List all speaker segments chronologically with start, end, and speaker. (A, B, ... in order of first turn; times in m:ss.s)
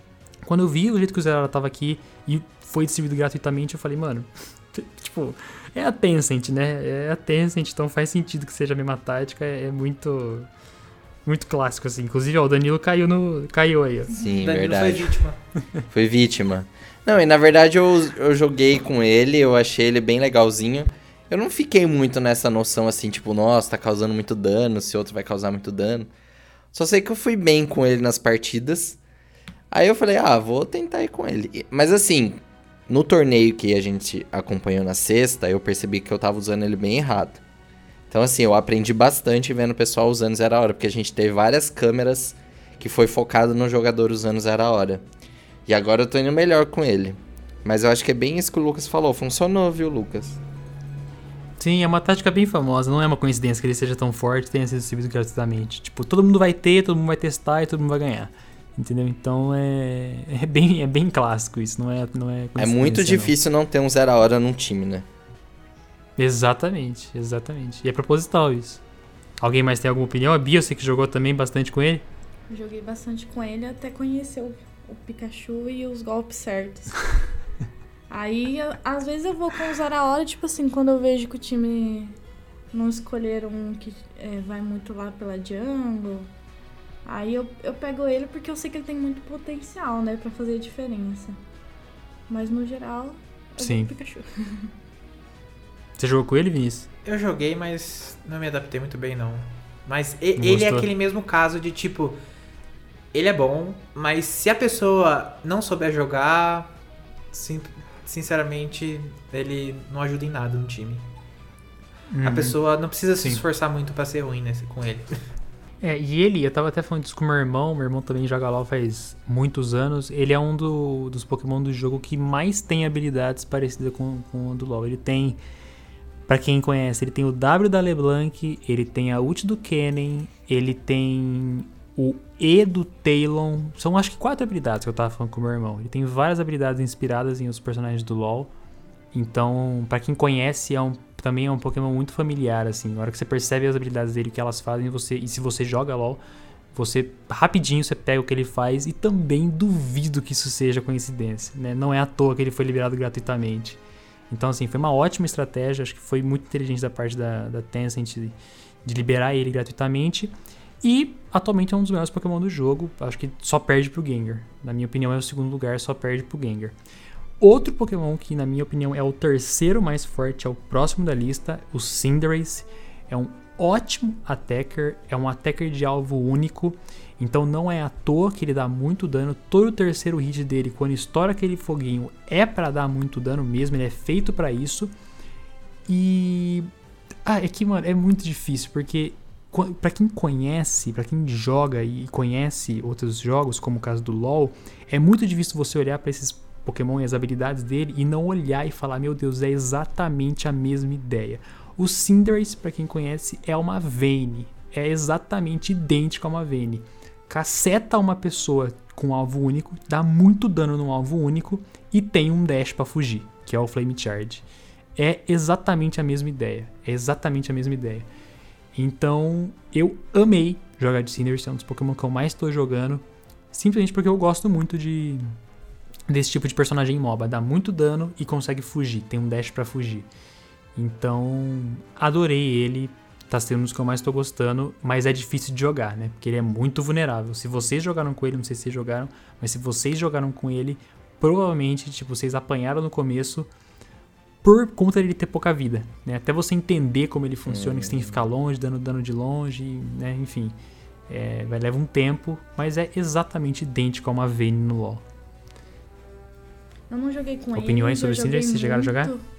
0:00.4-0:10.5 A
0:11.2-0:14.2 A
0:14.1-0:15.2 B
0:14.4-0:15.4 C
0:15.9-0:26.1 B
0:26.7-0:29.0 B
0:29.7-0:37.4 B
0:38.1-0:45.0 B
0:45.7-0:50.4 B
0:51.6-1:03.4 A
1:02.6-1:05.0 B
1:06.2-1:08.8 A
1:09.4-1:12.0 A
1:12.5-1:17.0 D
1:18.1-1:22.2 D
1:22.7-1:26.3 D
1:27.0-1:31.4 D
1:32.3-1:34.7 D
1:33.6-1:33.9 A
1:36.0-1:36.9 A
1:37.0-1:42.2 C
1:40.4-1:40.9 A
1:43.1-1:46.7 C
1:47.3-1:51.0 C
1:52.1-1:52.6 A
1:52.2-1:55.2 C
1:55.8-2:05.4 A
2:06.3-2:18.5 A
2:19.1-2:26.2 A
2:26.7-2:33.8 A
2:34.3-2:46.7 A
2:47.4-3:04.9 A
3:05.9-3:06.7 A
3:07.2-3:34.4 A
3:35.0-3:38.0 A
3:38.7-3:45.2 A
3:46.1-3:50.1 A
3:50.7-4:03.5 A
4:04.4-4:10.5 A
4:07.4-4:08.2 B
4:11.1-4:15.0 A
4:16.9-4:19.2 D
4:17.5-4:19.1 A